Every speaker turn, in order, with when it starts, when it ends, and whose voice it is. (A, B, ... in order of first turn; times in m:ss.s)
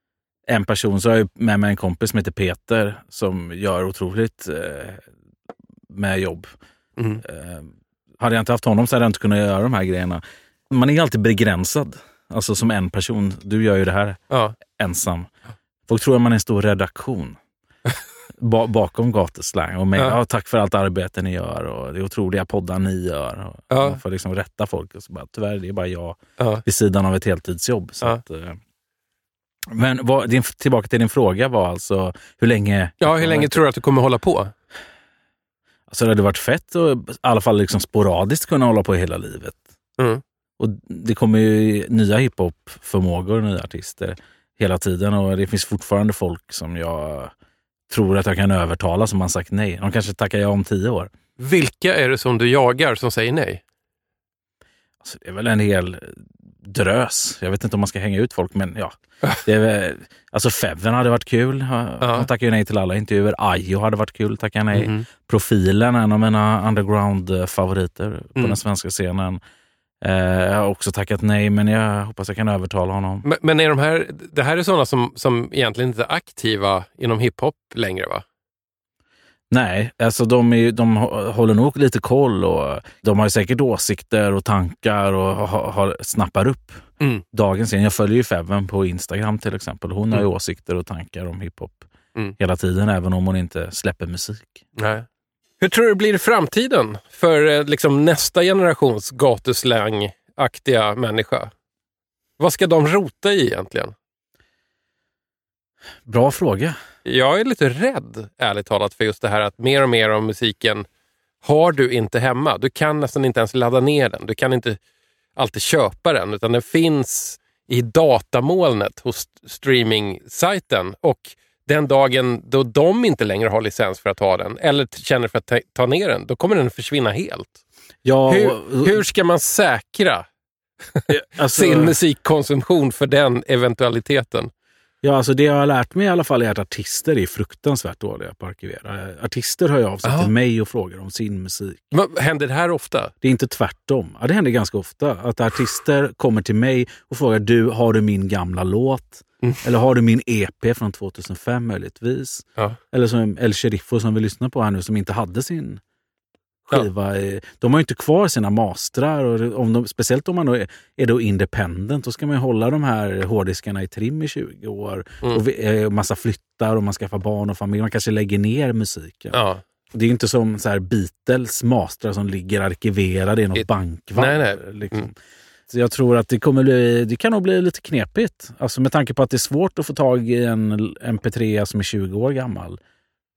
0:00.5-0:05.0 A
0:05.9-0:06.5 A
0:07.0-0:07.2 B
0:07.2-0:15.3 A
0:14.3-0:14.5 B
0:15.9-0:17.4 A
0:18.4-0:28.6 A
0:23.7-0:24.0 B
0:29.7-0:33.6 A
0:33.0-0:34.5 B
0:35.9-0:39.6 A
0:40.6-0:47.3 A
0:47.9-0:51.1 A
0:51.4-0:53.6 B
0:55.0-1:09.4 A
1:02.0-1:02.3 B
1:04.7-1:05.0 B
1:10.0-1:13.2 A
1:13.2-1:18.2 B
1:19.5-1:34.6 A
1:34.8-1:35.0 B
1:35.6-1:41.5 B
1:42.4-1:43.9 B
1:46.0-1:46.8 A
1:47.0-1:50.8 B
1:51.4-1:54.8 B
1:55.4-2:07.6 B
2:08.0-2:09.0 A
2:08.3-2:10.3 B
2:11.0-2:14.5 B
2:11.1-2:11.9 A
2:15.0-2:21.9 A
2:20.0-2:20.3 B
2:21.9-2:23.1 B
2:23.2-2:35.8 A
2:36.7-2:49.4 A
2:49.3-2:49.6 B
2:49.9-2:55.2 A
2:53.5-2:55.1 B
2:55.7-3:02.8 A